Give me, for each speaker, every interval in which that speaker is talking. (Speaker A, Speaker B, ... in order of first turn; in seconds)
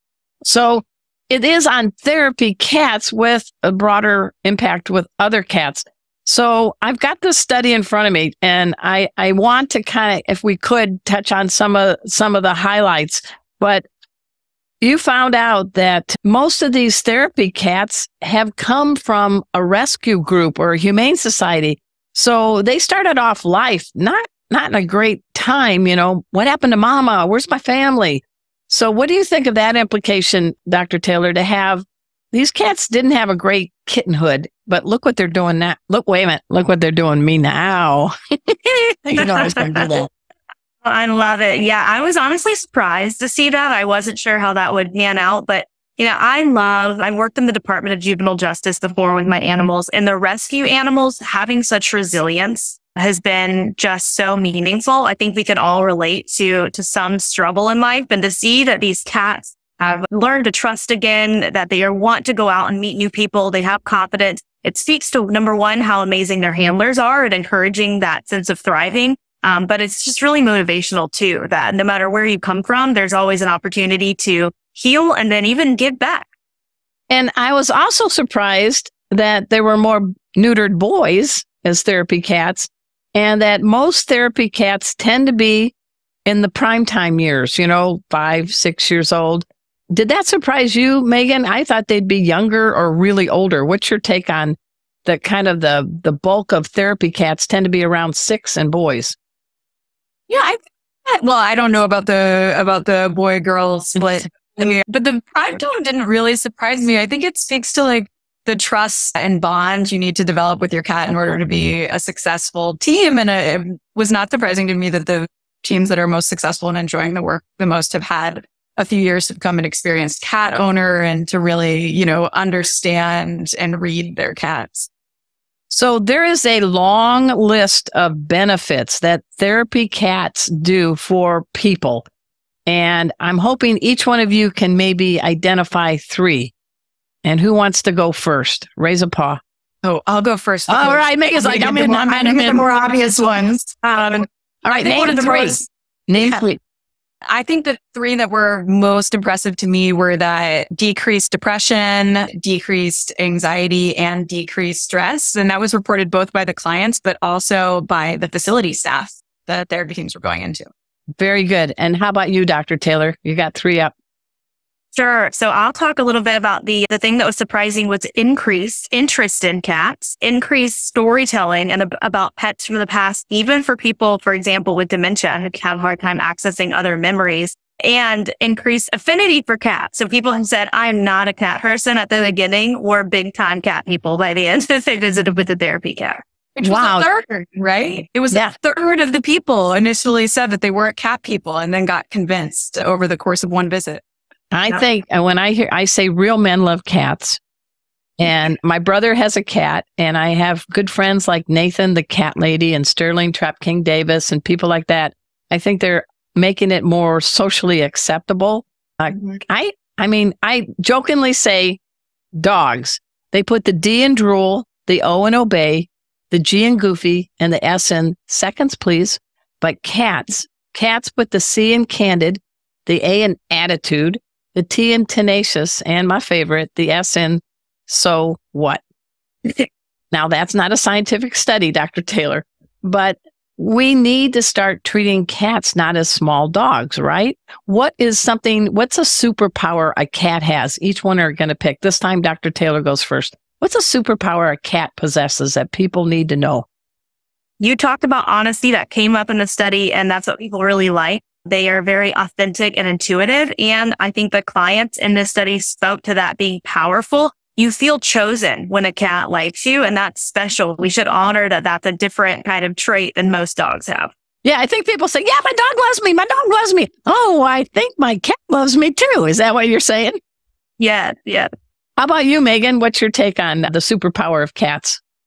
Speaker A: 0.4-13.8, 14.8-40.1, 77.1-85.7, 86.2-99.2, 125.7-132.1, 132.7-136.5, 137.2-139.4, 140.7-142.7, 144.6-146.6, 161.2-163.9, 186.6-187.1, 194.5-197.4, 198.2-211.8, 212.3-228.8, 230.1-246.6, 264.4-270.2, 272.0-275.0
Speaker B: 39.2-39.9, 40.8-76.3, 164.9-186.2, 247.6-264.1, 270.8-271.5
Speaker C: 100.3-124.9, 139.8-145.6, 146.2-146.4, 147.3-160.7, 186.6-194.0